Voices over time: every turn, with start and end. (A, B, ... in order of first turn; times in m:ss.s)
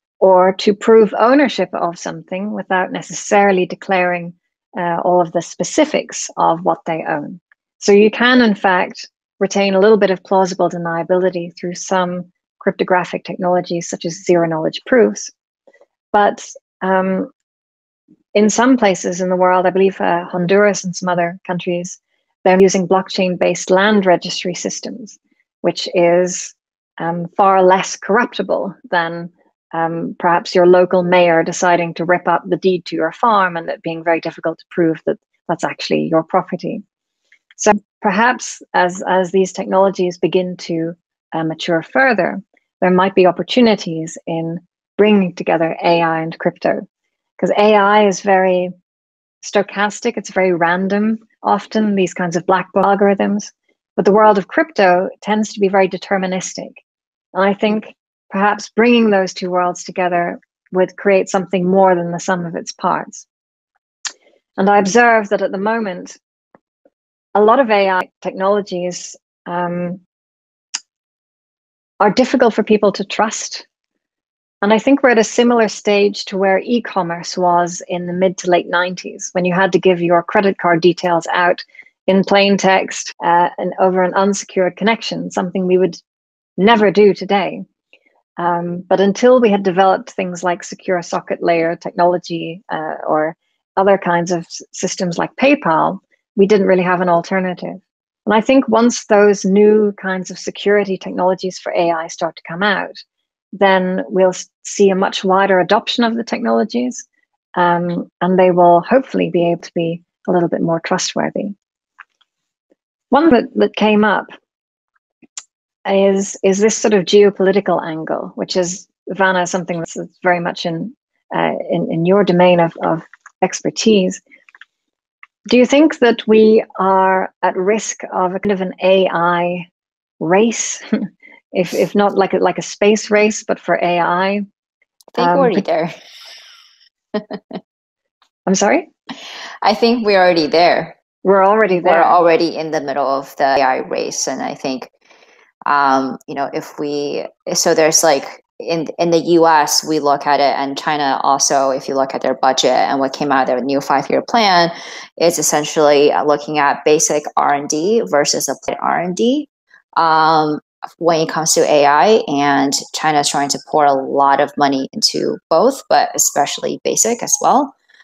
0:00.2-0:15.3 A
0:16.1-0:17.3 A
0:18.3-0:36.8 A
0:37.6-0:46.9 A
0:47.4-0:48.7 A
0:49.4-0:56.8 A
0:57.3-1:03.3 A
1:04.6-1:06.2 A
1:07.4-1:10.0 A
1:12.0-1:13.6 A
1:14.6-1:26.0 A
1:26.6-1:27.6 A
1:28.4-1:43.0 A
1:43.5-1:51.6 A
1:53.1-1:54.3 A
1:55.9-2:04.2 A
2:05.5-2:09.7 A
2:10.2-2:14.5 A
2:15.2-2:15.9 B
2:15.2-2:15.6 A
2:17.2-2:17.6 B
2:18.5-2:18.9 A
2:19.6-2:21.0 B
2:21.2-2:22.2 A
2:21.8-2:24.9 B
2:25.7-2:47.7 B